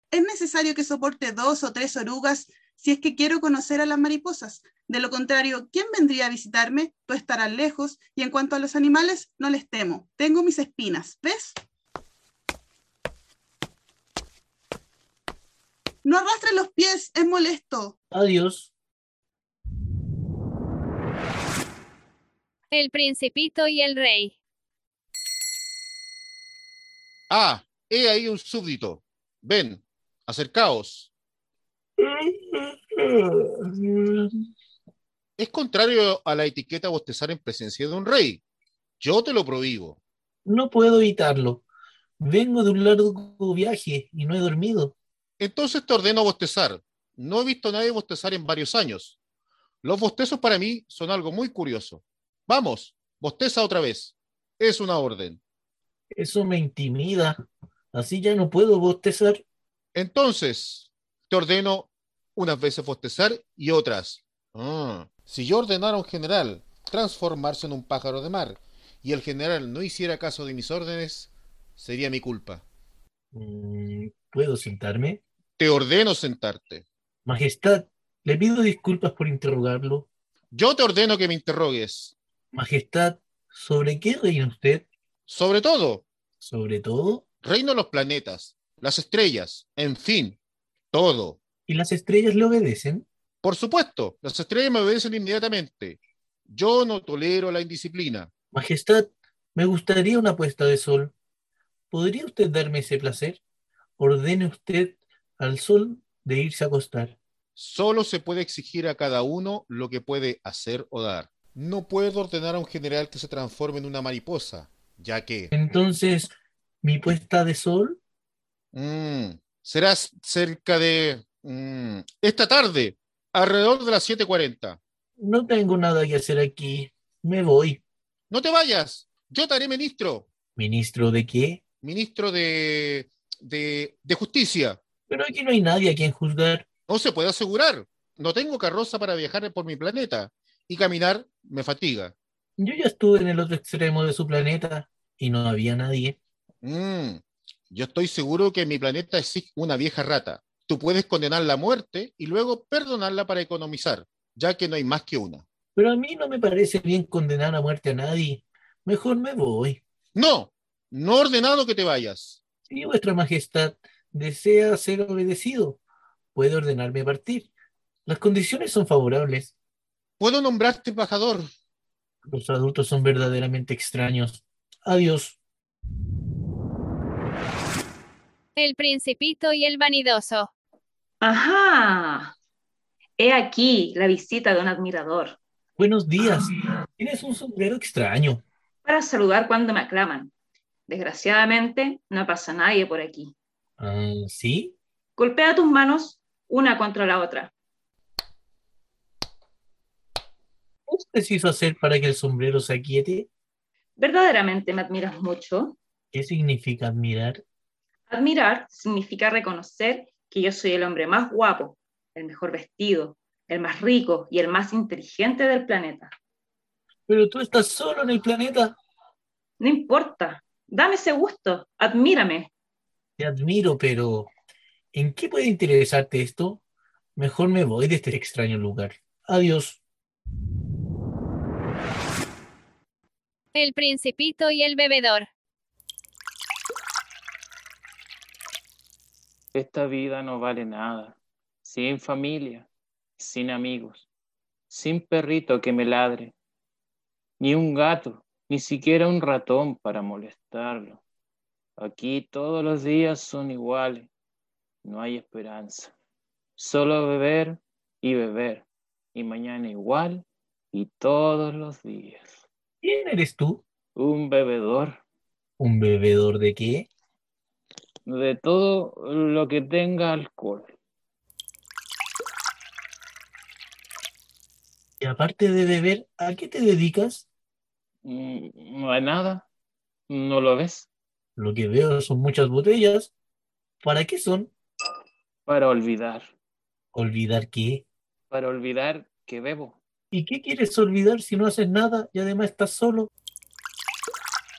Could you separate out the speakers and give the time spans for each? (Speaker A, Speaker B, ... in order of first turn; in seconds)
Speaker A: 0.1-11.6, 16.0-17.9
Speaker B: 18.1-18.7, 32.0-34.3, 40.4-41.6, 42.2-44.9, 56.1-57.4, 57.9-59.4, 73.3-75.2, 77.2-80.1, 82.5-84.9, 86.4-87.2, 91.7-93.0, 98.5-101.1, 101.9-103.4, 104.0-107.2, 115.5-118.0, 125.2-127.8, 130.6-131.6, 135.1-136.7, 142.6-146.2, 155.7-159.8, 162.7-165.8, 166.3-167.5, 168.1-169.5, 172.3-175.4, 185.8-188.4, 193.8-194.8, 200.9-203.3, 206.1-207.4, 217.1-218.8, 223.2-224.3, 224.9-226.6, 227.2-229.8, 262.8-263.6, 265.6-266.9, 275.0-277.2, 281.4-283.1, 283.8-284.5, 286.9-287.8, 290.1-293.1
Speaker C: 22.7-24.3, 178.6-180.5, 233.5-235.3
Speaker D: 27.3-31.1, 35.4-38.4, 39.0-40.0, 45.4-49.2, 49.8-55.4, 59.9-72.6, 75.6-76.8, 80.5-82.1, 85.3-86.0, 87.4-90.4, 90.9-91.4, 93.4-98.3, 107.5-115.5, 118.7-124.8, 128.3-130.3, 131.8-134.8, 136.9-142.1, 146.6-155.4, 160.1-162.4, 170.2-171.5
Speaker E: 181.2-182.3, 183.2-185.4, 188.8-190.3, 190.9-193.3, 195.2-197.5, 204.0-205.8, 208.1-216.1, 219.6-222.5
Speaker F: 239.5-242.7, 243.2-244.1, 244.7-246.3, 247.4-251.0, 251.8-254.1, 254.8-255.9, 256.6-262.4, 263.9-265.0, 268.1-270.7, 278.0-279.4, 280.1-280.9, 285.5-286.3, 288.3-289.8